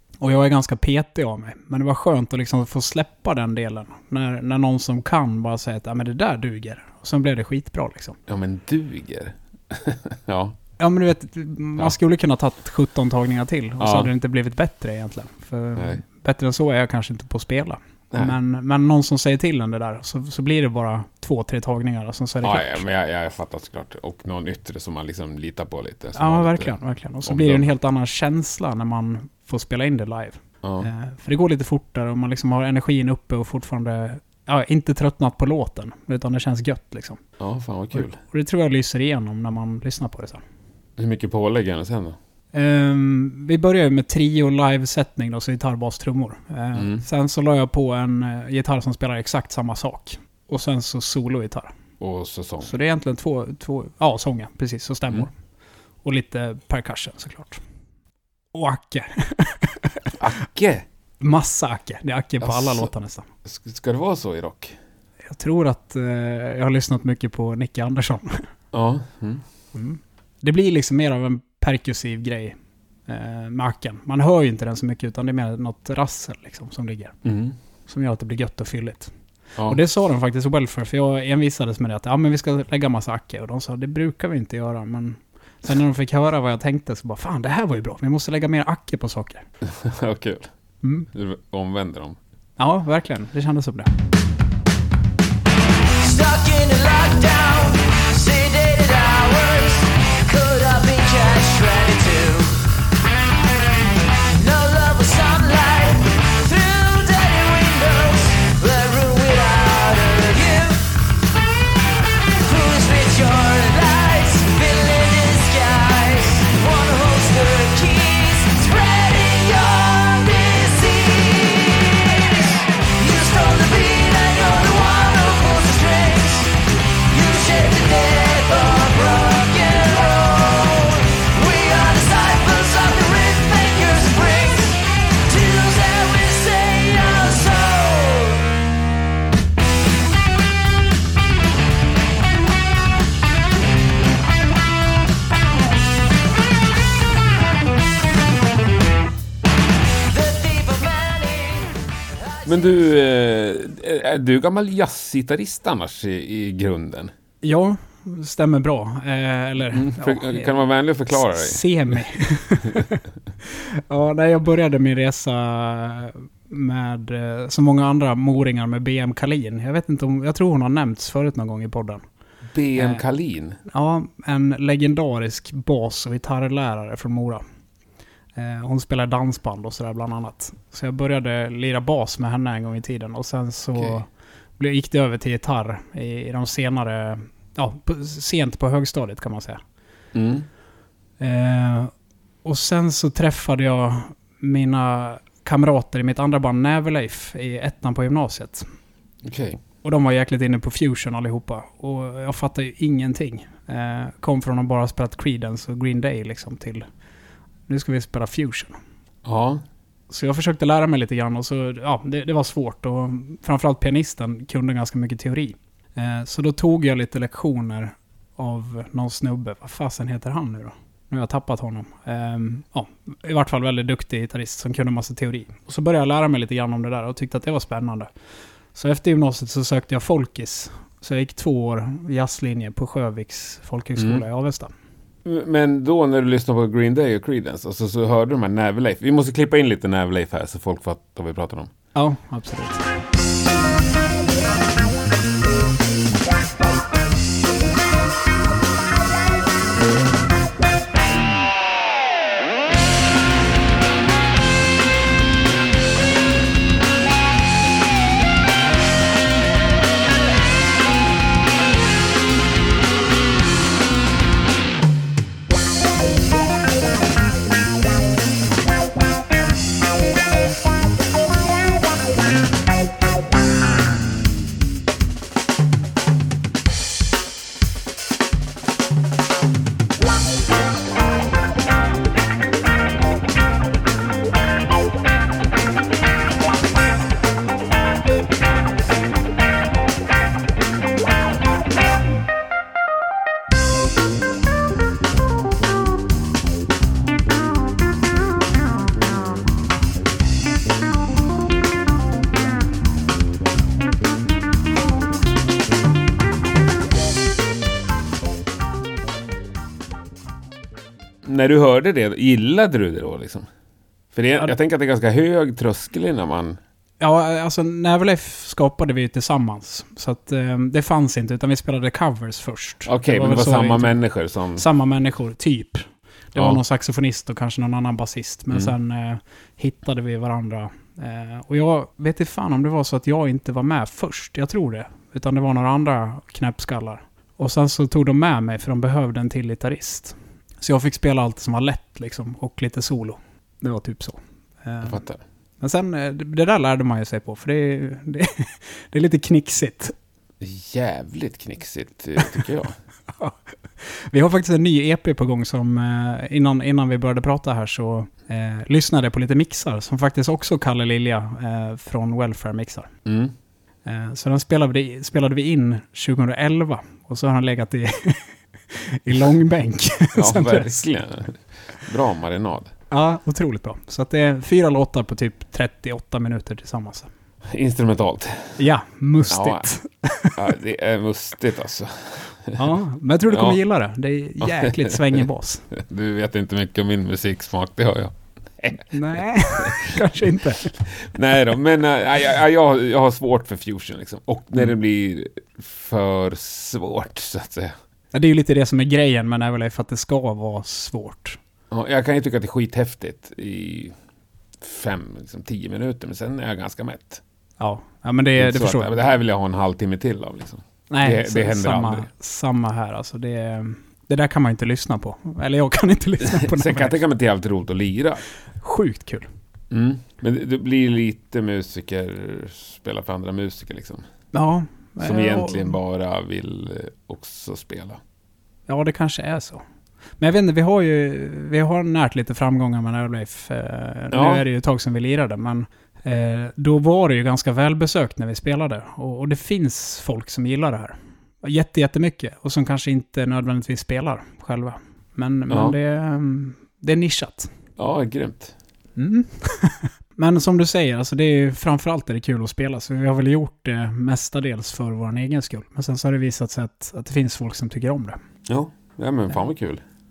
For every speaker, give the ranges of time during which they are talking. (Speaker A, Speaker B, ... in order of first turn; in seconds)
Speaker A: 0.2-8.2, 10.8-22.8, 26.1-37.2, 38.0-40.4, 42.5-51.7, 52.6-55.3, 56.0-57.6, 58.5-60.2, 61.2-63.3, 65.3-68.5, 69.7-72.5, 73.1-77.2, 77.9-79.1, 79.7-89.5, 90.8-91.1, 92.6-93.9, 157.4-160.6, 161.1-172.0, 172.8-173.0, 173.7-177.4, 178.4-189.6, 191.2-191.9, 192.4-198.7, 199.8-206.8, 207.7-208.8, 210.1-228.1, 228.8-234.7, 241.9-242.8, 317.0-324.0, 324.6-345.0, 345.6-349.9, 353.2-362.9, 363.9-370.8, 372.9-377.1, 378.6-380.4, 382.6-385.7, 388.9-390.8, 398.1-401.4, 407.6-408.9, 410.9-417.0, 418.6-419.3, 424.3-425.8, 428.7-429.6, 430.2-447.5, 449.0-458.2
Speaker B: 8.3-10.6, 13.8-14.1, 22.4-26.7, 27.2-27.7, 30.6-30.9, 37.4-38.2, 41.0-42.2, 46.8-47.0, 52.0-52.7, 60.2-60.9, 62.4-62.9, 63.4-64.8, 68.7-69.4, 77.2-77.5, 89.6-90.5, 91.1-92.2, 152.5-157.1, 159.7-161.7, 172.5-173.6, 190.1-190.5, 199.2-199.6, 209.2-209.6, 234.0-234.2, 235.2-241.7, 311.2-313.5, 314.1-316.6, 322.9-324.6, 344.8-345.2, 350.4-352.8, 363.1-363.3, 370.2-372.7, 377.5-378.6, 379.3-379.7, 380.4-382.6, 383.3-383.6, 384.4-390.0, 390.9-397.8, 401.7-404.0, 404.6-407.2, 408.4-412.1, 416.2-418.2, 419.7-424.0, 425.0-428.0, 434.1-434.4, 445.5-445.8, 447.8-448.6, 458.5-459.8
Speaker C: 96.0-102.7, 104.3-111.0, 112.4-138.6, 150.1-152.5